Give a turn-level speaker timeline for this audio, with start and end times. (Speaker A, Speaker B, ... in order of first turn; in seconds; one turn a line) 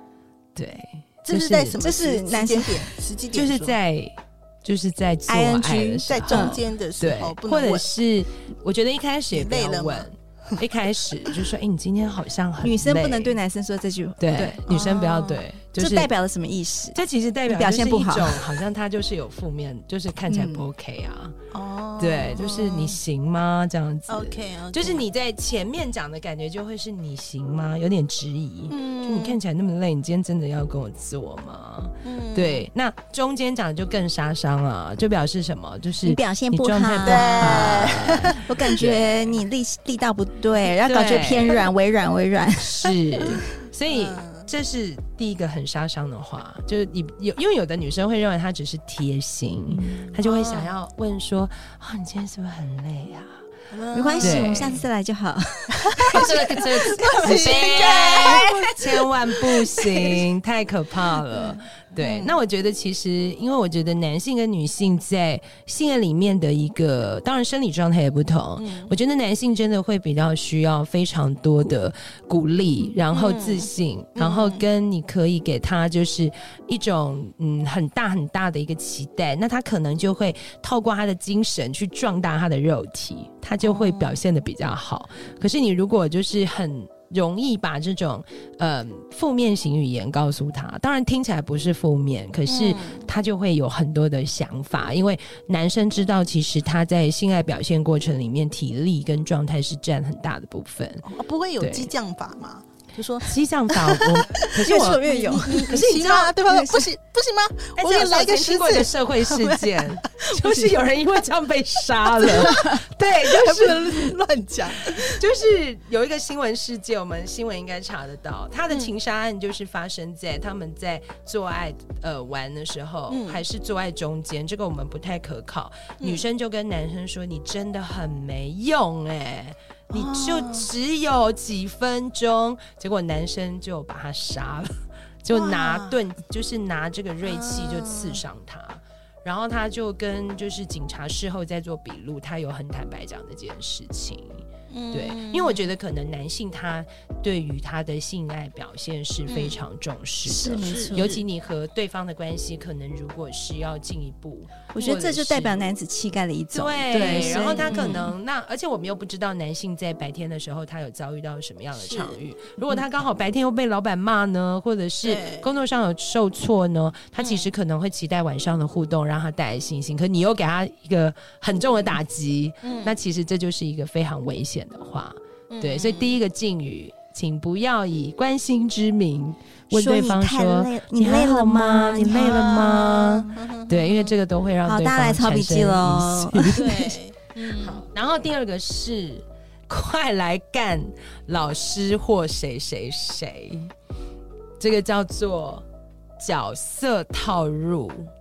Speaker A: 0.6-1.8
Speaker B: 1.3-3.8
Speaker C: 1.8-2.9
Speaker A: 3.3-13.4
Speaker C: 5.3-6.6
Speaker B: 6.1-7.9
Speaker B: 9.3-10.1
Speaker C: 12.6-14.6
Speaker A: 14.2-16.1
Speaker B: 14.7-15.4
Speaker C: 15.8-18.6
Speaker A: 16.9-21.4
Speaker C: 20.3-20.6
Speaker B: 21.5-23.0
Speaker A: 22.0-39.4
Speaker B: 24.1-25.0
Speaker B: 28.7-29.4
Speaker B: 32.0-32.7
Speaker C: 36.0-43.0
Speaker B: 37.1-38.9
Speaker A: 40.9-41.6
Speaker A: 42.6-53.4
Speaker B: 43.9-44.5
Speaker C: 49.7-50.2
Speaker B: 50.2-50.7
Speaker B: 53.7-54.8
Speaker C: 53.9-58.6
Speaker A: 54.2-54.8
Speaker B: 55.9-58.7
Speaker A: 56.1-101.1
Speaker C: 61.3-62.2
Speaker B: 68.6-68.9
Speaker B: 73.1-74.6
Speaker B: 83.6-84.2
Speaker B: 92.5-93.1
Speaker B: 101.1-104.5
Speaker A: 101.6-101.9
Speaker A: 103.2-106.3
Speaker C: 104.4-106.9
Speaker B: 105.0-110.8
Speaker A: 107.8-114.1
Speaker B: 112.1-115.2
Speaker A: 115.0-155.7
Speaker B: 123.1-123.4
Speaker B: 126.0-126.2
Speaker B: 129.9-130.7
Speaker B: 135.3-136.0
Speaker B: 137.2-138.2
Speaker B: 144.7-145.7
Speaker B: 149.3-149.6
Speaker C: 150.2-151.1
Speaker B: 150.6-151.2
Speaker C: 154.7-158.1
Speaker A: 156.5-186.6
Speaker B: 157.0-158.1
Speaker B: 161.8-162.2
Speaker B: 165.0-165.5
Speaker B: 167.2-167.5
Speaker B: 172.6-172.9
Speaker B: 175.5-176.2
Speaker C: 179.7-183.3
Speaker B: 182.1-184.1
Speaker C: 184.6-187.0
Speaker B: 186.6-187.8
Speaker A: 187.6-193.7
Speaker A: 194.6-195.6
Speaker A: 196.2-198.1